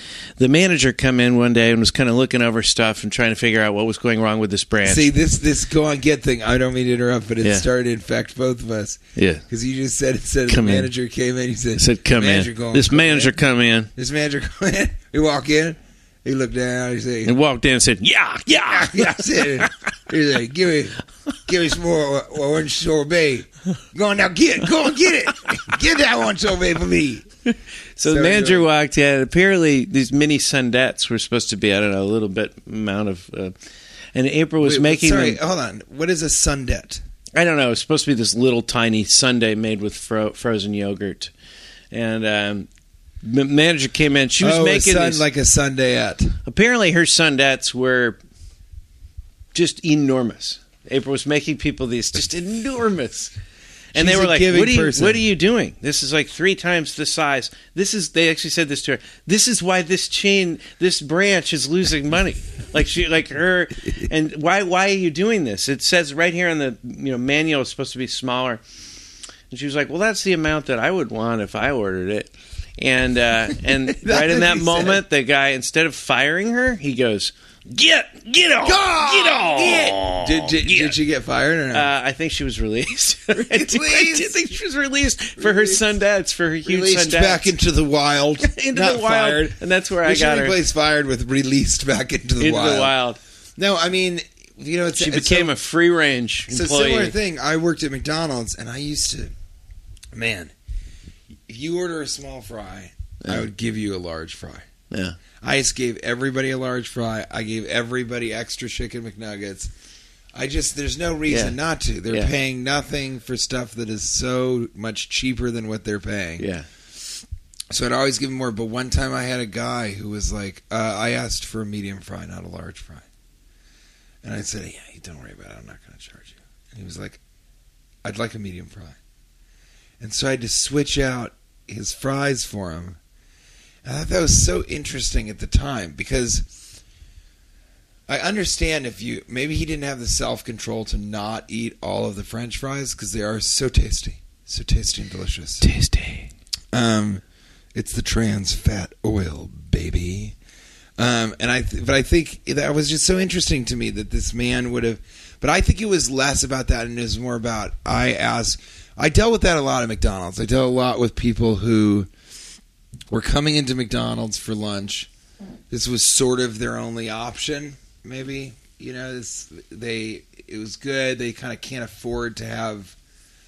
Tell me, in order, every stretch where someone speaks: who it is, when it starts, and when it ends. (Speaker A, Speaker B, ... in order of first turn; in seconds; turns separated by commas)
Speaker A: 0.4-5.1, Speaker B: 4.8-13.4, Speaker A: 9.2-9.4, Speaker A: 10.5-10.9, Speaker A: 11.8-13.9, Speaker B: 13.9-17.3, Speaker A: 17.2-19.7, Speaker B: 18.6-27.3, Speaker A: 27.5-33.5, Speaker B: 28.1-28.7, Speaker A: 34.1-35.4, Speaker B: 34.6-37.0, Speaker A: 37.3-41.3, Speaker A: 41.9-42.7, Speaker A: 43.2-45.2, Speaker B: 44.4-46.4, Speaker A: 46.4-48.2, Speaker A: 49.5-53.3, Speaker A: 53.9-68.6, Speaker B: 53.9-55.2, Speaker A: 69.5-80.9, Speaker B: 74.0-75.0, Speaker B: 78.6-81.9, Speaker A: 81.7-87.5, Speaker B: 83.3-84.3, Speaker B: 85.4-85.8, Speaker B: 86.6-92.9, Speaker A: 88.4-90.6, Speaker A: 92.4-93.2, Speaker B: 93.6-95.5, Speaker A: 95.0-97.1, Speaker B: 96.5-99.3, Speaker B: 100.1-100.5, Speaker B: 101.5-104.7, Speaker A: 104.9-105.2, Speaker B: 105.4-109.7, Speaker B: 110.3-116.4, Speaker A: 111.3-111.5, Speaker A: 116.4-116.7, Speaker B: 117.7-123.0, Speaker B: 124.2-127.2, Speaker B: 128.0-129.0, Speaker B: 130.0-133.0, Speaker B: 133.8-136.5, Speaker B: 138.1-145.7, Speaker A: 145.6-146.3, Speaker B: 146.7-147.2, Speaker B: 147.7-150.3, Speaker B: 151.0-162.1, Speaker B: 163.1-165.1, Speaker B: 165.7-172.9